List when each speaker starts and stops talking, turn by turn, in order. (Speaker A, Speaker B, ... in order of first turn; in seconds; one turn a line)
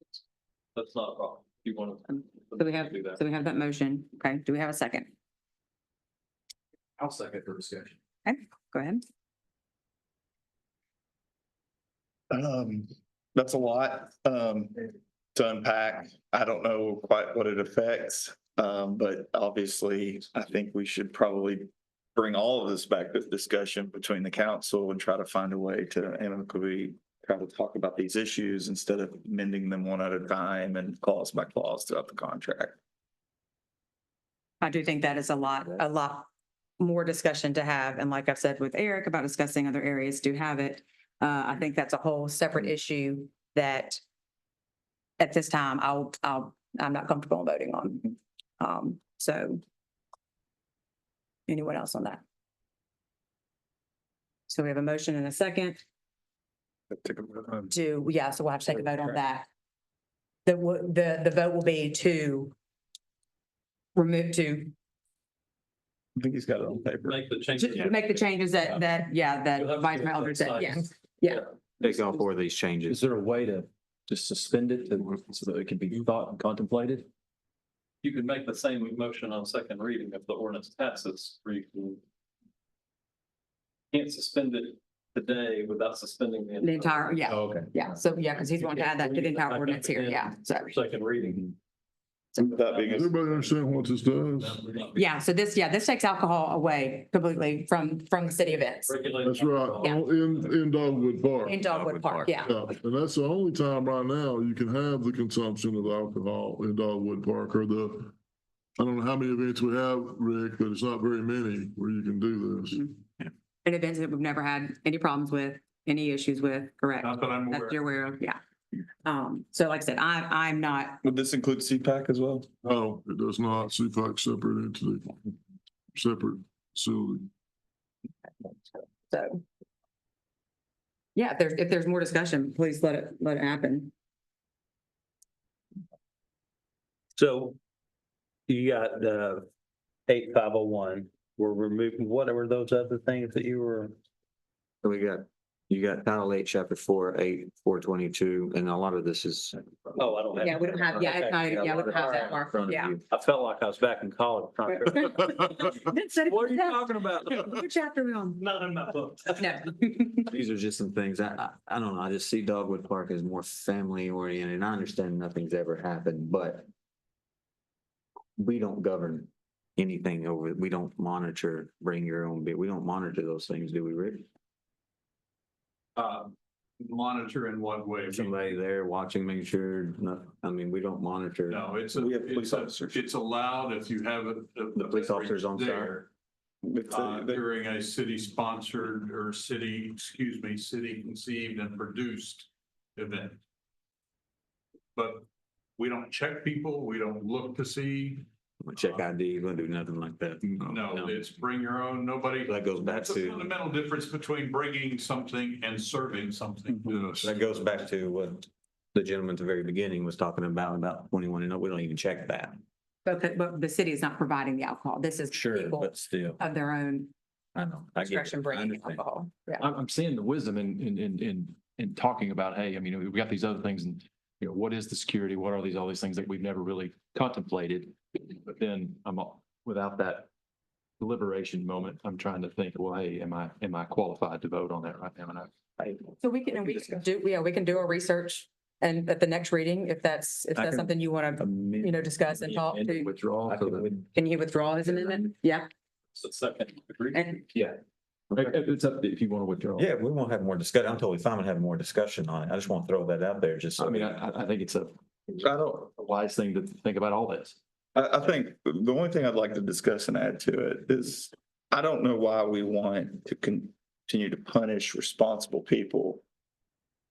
Speaker A: 0.7-3.2
Speaker B: 2.1-5.1
Speaker C: 7.0-7.9
Speaker B: 8.2-9.0
Speaker D: 12.3-32.8
Speaker B: 34.6-44.0
Speaker B: 45.2-49.6
Speaker B: 51.5-52.2
Speaker B: 54.5-55.8
Speaker D: 56.9-57.7
Speaker B: 57.7-59.5
Speaker D: 58.7-59.2
Speaker B: 60.5-62.5
Speaker B: 63.9-64.7
Speaker D: 66.2-67.2
Speaker A: 67.0-68.1
Speaker B: 67.5-71.5
Speaker A: 69.5-71.4
Speaker E: 71.8-73.0
Speaker C: 72.9-77.1
Speaker A: 78.0-82.0
Speaker A: 83.9-87.3
Speaker B: 86.6-90.7
Speaker A: 88.6-91.5
Speaker B: 92.3-92.6
Speaker D: 92.4-93.1
Speaker A: 92.7-93.5
Speaker F: 92.9-94.7
Speaker A: 94.7-95.0
Speaker B: 94.9-99.0
Speaker A: 98.9-100.2
Speaker F: 99.2-101.6
Speaker B: 101.4-102.5
Speaker E: 101.7-102.3
Speaker F: 102.4-108.1
Speaker F: 108.8-112.8
Speaker B: 112.7-113.0
Speaker B: 113.6-118.4
Speaker G: 117.0-117.8
Speaker B: 119.0-121.0
Speaker D: 121.0-122.5
Speaker F: 122.6-125.2
Speaker F: 125.9-127.3
Speaker B: 129.0-129.4
Speaker B: 131.2-133.9
Speaker H: 137.2-137.6
Speaker H: 138.5-139.5
Speaker H: 140.1-144.0
Speaker E: 144.8-149.6
Speaker H: 149.9-152.3
Speaker B: 150.4-152.9
Speaker E: 151.5-153.0
Speaker H: 153.1-157.5
Speaker B: 154.7-158.4
Speaker H: 158.4-159.5
Speaker B: 159.4-160.3
Speaker E: 160.3-166.7
Speaker E: 168.4-174.2
Speaker G: 175.9-178.5
Speaker E: 178.1-181.6
Speaker G: 181.5-186.0
Speaker D: 181.9-183.0
Speaker E: 184.7-186.0
Speaker D: 186.6-187.4
Speaker G: 186.9-193.4
Speaker G: 194.9-195.2
Speaker G: 195.8-198.3
Speaker E: 198.6-201.3
Speaker G: 200.5-207.3
Speaker E: 202.5-203.5
Speaker E: 207.2-212.6
Speaker B: 213.0-217.1
Speaker E: 215.3-216.4
Speaker E: 217.5-219.1
Speaker B: 218.0-219.7
Speaker C: 219.6-230.3
Speaker C: 231.0-235.5
Speaker B: 236.2-243.2
Speaker E: 236.5-236.9
Speaker C: 240.5-244.0
Speaker E: 243.5-244.0
Speaker B: 244.1-245.7
Speaker A: 246.1-247.3
Speaker B: 247.1-247.5
Speaker C: 247.5-247.8
Speaker E: 248.3-248.6
Speaker C: 248.3-249.9
Speaker E: 249.8-254.2
Speaker C: 253.8-254.9
Speaker D: 255.4-255.9
Speaker C: 255.9-257.6
Speaker D: 257.9-266.2